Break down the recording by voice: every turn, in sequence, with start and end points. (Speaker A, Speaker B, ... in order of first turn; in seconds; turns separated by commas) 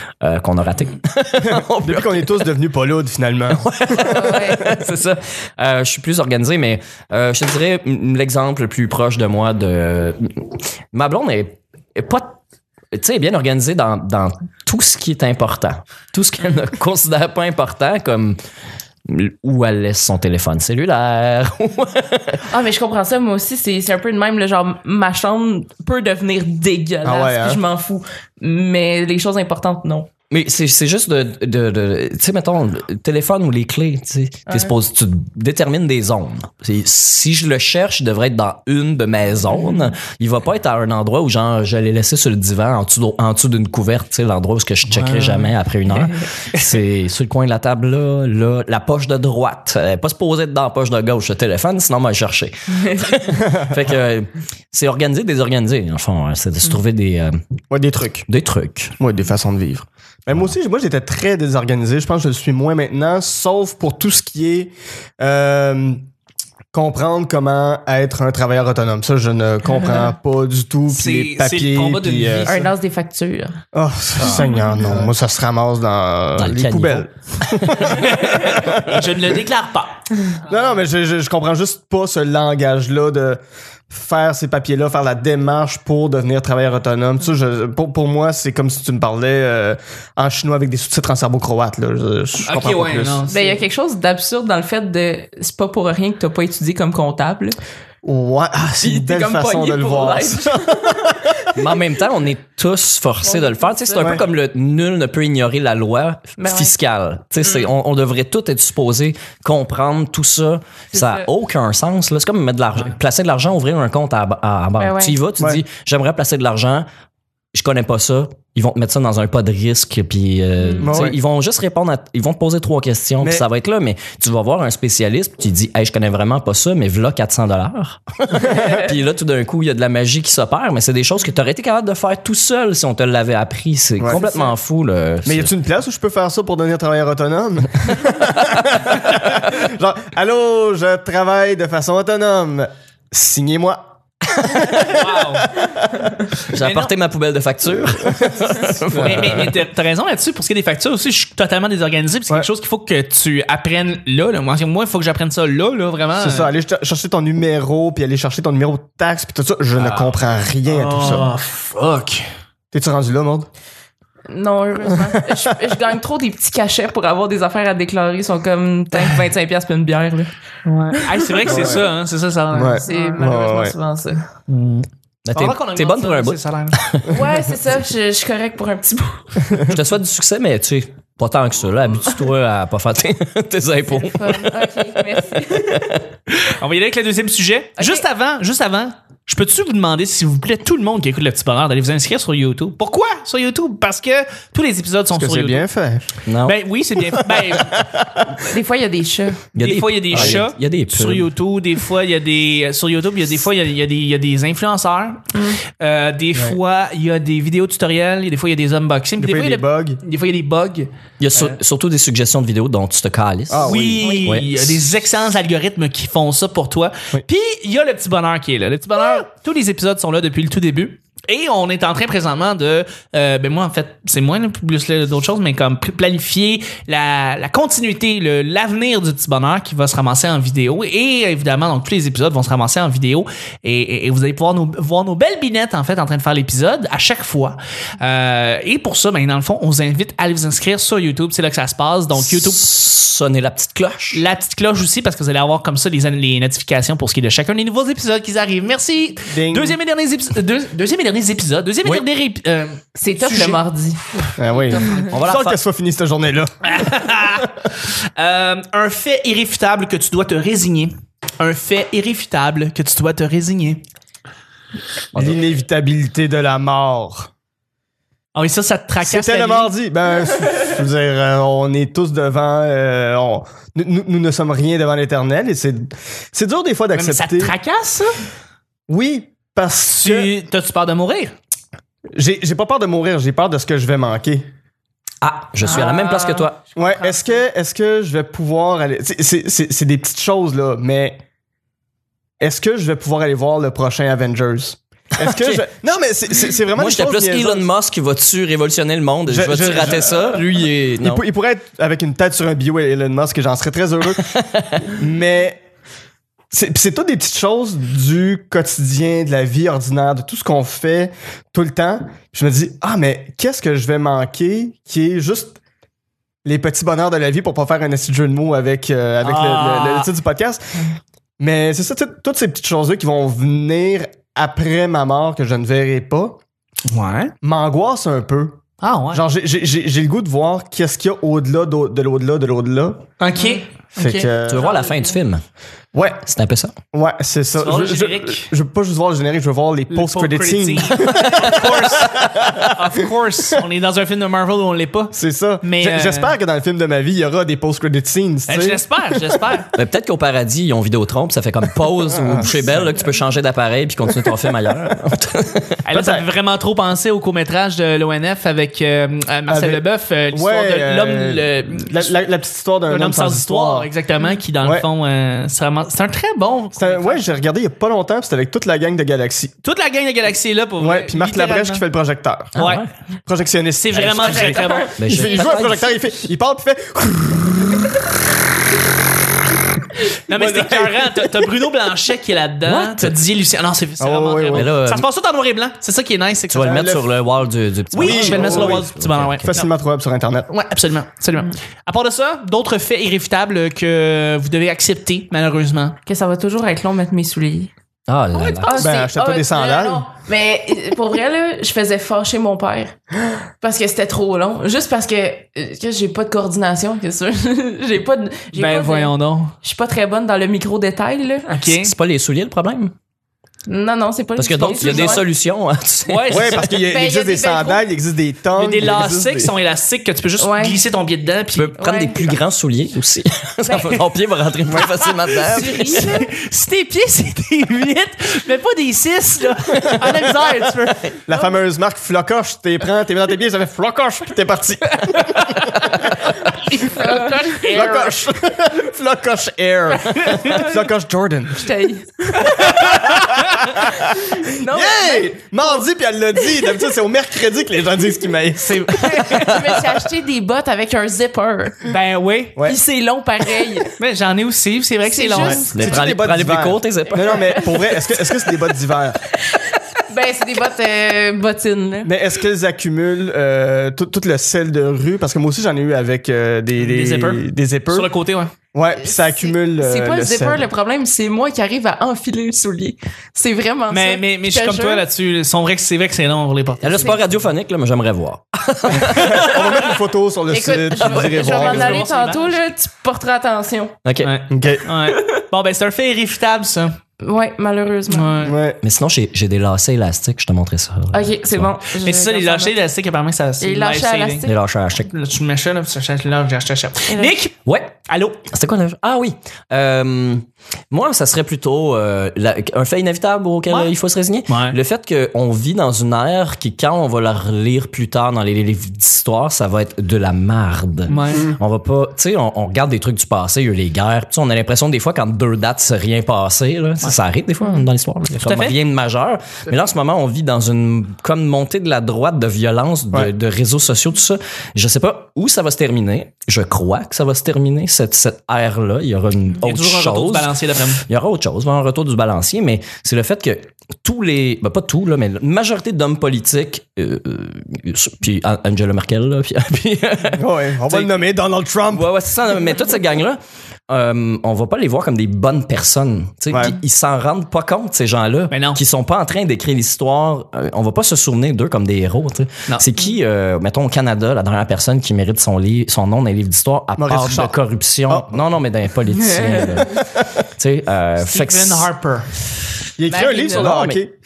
Speaker A: 0.2-2.5, Speaker B: 1.4-4.4, Speaker A: 3.5-12.4, Speaker C: 4.0-4.6, Speaker A: 12.9-18.4, Speaker A: 19.1-22.4, Speaker C: 22.5-30.1, Speaker B: 27.0-27.6, Speaker A: 30.3-57.4, Speaker D: 44.9-45.5, Speaker B: 57.7-58.3, Speaker A: 58.3-58.9, Speaker B: 59.0-66.0, Speaker B: 66.7-72.7, Speaker C: 69.8-70.0, Speaker D: 70.9-72.6, Speaker C: 72.4-73.6, Speaker B: 73.7-79.1, Speaker A: 76.4-77.7, Speaker D: 77.8-80.0, Speaker B: 80.5-93.2, Speaker D: 92.5-93.6, Speaker C: 93.3-97.6, Speaker B: 98.0-101.3, Speaker C: 98.8-101.6, Speaker A: 101.5-116.8, Speaker C: 103.2-104.2, Speaker C: 106.4-106.7, Speaker C: 110.9-111.3, Speaker C: 114.8-115.2, Speaker A: 117.5-135.5, Speaker B: 120.8-121.2, Speaker B: 128.3-128.7, Speaker B: 135.2-146.1, Speaker D: 144.8-145.5, Speaker A: 146.5-149.5, Speaker D: 146.5-146.9, Speaker B: 148.9-149.5, Speaker D: 149.0-156.5, Speaker B: 156.2-161.3, Speaker D: 159.8-160.1, Speaker D: 160.7-162.2, Speaker B: 162.7-163.5, Speaker C: 164.3-170.3, Speaker B: 165.0-165.3, Speaker D: 170.6-173.2, Speaker C: 170.9-171.6, Speaker B: 171.4-171.8, Speaker B: 172.5-173.7, Speaker C: 172.8-174.2, Speaker D: 174.5-176.8, Speaker A: 175.2-177.1, Speaker C: 177.1-179.6, Speaker A: 179.6-186.0, Speaker C: 183.9-185.9, Speaker D: 186.4-195.6, Speaker C: 187.8-188.0, Speaker B: 195.1-196.2, Speaker A: 196.2-196.6, Speaker D: 196.4-197.8, Speaker B: 197.2-198.3, Speaker C: 198.5-199.4, Speaker A: 199.5-201.3, Speaker D: 199.6-210.9, Speaker B: 200.1-200.4, Speaker B: 209.2-210.0, Speaker A: 211.2-214.8, Speaker B: 213.5-214.2, Speaker D: 213.6-242.7, Speaker C: 214.0-214.3, Speaker A: 242.1-244.2, Speaker D: 244.1-253.6, Speaker B: 249.3-249.8, Speaker C: 252.9-254.0, Speaker B: 254.4-256.6, Speaker D: 254.8-255.4, Speaker A: 255.1-255.6, Speaker D: 256.6-263.8, Speaker B: 265.1-267.3, Speaker D: 268.3-269.7, Speaker B: 269.0-277.5, Speaker D: 276.9-278.1, Speaker B: 278.9-280.3, Speaker D: 279.9-281.3, Speaker B: 282.1-284.4, Speaker A: 285.2-286.7, Speaker C: 285.7-287.3, Speaker B: 286.7-291.2, Speaker B: 292.4-297.7, Speaker A: 295.2-295.6, Speaker A: 296.7-301.2, Speaker B: 299.3-300.4, Speaker B: 301.0-304.3, Speaker A: 304.2-304.8, Speaker B: 304.8-305.6, Speaker B: 306.5-315.6, Speaker B: 316.4-320.8, Speaker D: 319.2-320.1, Speaker B: 321.4-326.4, Speaker D: 326.9-327.3, Speaker B: 327.4-328.6, Speaker D: 328.8-329.2, Speaker B: 329.1-333.0, Speaker D: 333.2-334.3, Speaker B: 334.0-334.8, Speaker A: 334.5-335.4, Speaker C: 334.7-335.1, Speaker B: 335.9-336.2, Speaker A: 336.2-336.7, Speaker B: 336.9-342.7, Speaker D: 337.6-338.5, Speaker D: 339.9-346.3, Speaker B: 345.1-348.8, Speaker D: 348.5-349.7, Speaker A: 349.7-355.8, Speaker B: 352.1-352.6, Speaker D: 355.9-362.1, Speaker B: 355.9-356.3, Speaker B: 359.5-363.9, Speaker D: 362.9-367.2, Speaker B: 366.8-369.5, Speaker D: 369.6-371.8, Speaker B: 370.8-372.5, Speaker A: 372.5-372.9, Speaker D: 372.5-372.8, Speaker B: 373.3-377.9, Speaker D: 373.8-374.9, Speaker C: 374.1-375.5, Speaker A: 375.0-375.9, Speaker D: 380.3-386.9, Speaker B: 380.3-381.4, Speaker A: 382.6-383.1, Speaker B: 384.0-384.6, Speaker A: 384.5-385.1, Speaker A: 386.5-389.5, Speaker B: 386.7-387.1, Speaker D: 387.9-389.7, Speaker B: 388.0-388.9, Speaker B: 389.4-390.5, Speaker D: 390.5-396.0, Speaker C: 396.1-397.7, Speaker A: 398.1-398.8, Speaker C: 398.5-402.9, Speaker B: 398.7-400.1, Speaker C: 403.6-411.5, Speaker D: 408.5-409.5, Speaker D: 411.4-411.9, Speaker A: 411.6-412.9, Speaker C: 413.7-415.2, Speaker A: 414.4-416.6, Speaker D: 416.1-416.8, Speaker B: 416.3-419.5, Speaker C: 416.9-417.9, Speaker D: 418.6-421.8, Speaker C: 420.4-420.8, Speaker A: 421.6-426.1, Speaker C: 421.8-422.3, Speaker C: 423.6-424.0, Speaker B: 424.8-425.1, Speaker C: 425.5-426.3, Speaker D: 425.6-431.2, Speaker B: 431.2-436.1, Speaker C: 431.3-431.6, Speaker D: 435.1-436.0, Speaker C: 436.3-438.1, Speaker D: 436.7-438.1, Speaker B: 437.7-441.7, Speaker D: 440.2-440.6, Speaker C: 441.6-442.5, Speaker D: 442.4-443.7, Speaker B: 442.5-449.9, Speaker C: 443.8-445.3, Speaker D: 448.6-449.6, Speaker C: 449.4-451.9, Speaker D: 451.9-452.6, Speaker C: 452.6-453.9, Speaker D: 454.0-455.7, Speaker C: 455.1-455.9, Speaker B: 455.4-459.2, Speaker A: 455.7-457.5, Speaker C: 457.1-458.0, Speaker C: 459.5-462.1, Speaker B: 462.0-468.1, Speaker D: 466.8-468.5, Speaker B: 468.7-470.7, Speaker C: 469.0-475.0, Speaker D: 473.9-477.2, Speaker A: 476.8-479.7, Speaker C: 476.9-477.2, Speaker B: 478.9-482.0, Speaker C: 480.5-484.0, Speaker D: 481.0-482.6, Speaker A: 484.0-484.4, Speaker D: 484.2-486.9, Speaker B: 484.5-484.9, Speaker C: 487.2-488.4, Speaker D: 488.1-488.5, Speaker B: 488.4-488.8, Speaker A: 488.8-491.8, Speaker C: 491.1-492.7, Speaker D: 492.0-497.5, Speaker C: 493.6-494.6, Speaker A: 494.4-495.1, Speaker C: 497.1-497.3, Speaker A: 497.6-497.9, Speaker D: 498.1-498.4, Speaker A: 498.5-530.5, Speaker D: 504.5-504.8, Speaker D: 511.1-511.5, Speaker D: 518.3-518.8, Speaker D: 529.6-531.0, Speaker A: 531.0-541.1, Speaker B: 540.3-542.1, Speaker A: 541.9-543.4, Speaker A: 543.9-561.9, Speaker B: 546.5-546.8, Speaker D: 548.5-548.8, Speaker B: 557.0-558.4, Speaker C: 559.2-560.0, Speaker D: 561.2-562.3, Speaker B: 563.0-564.1, Speaker C: 563.1-563.7, Speaker A: 563.2-564.0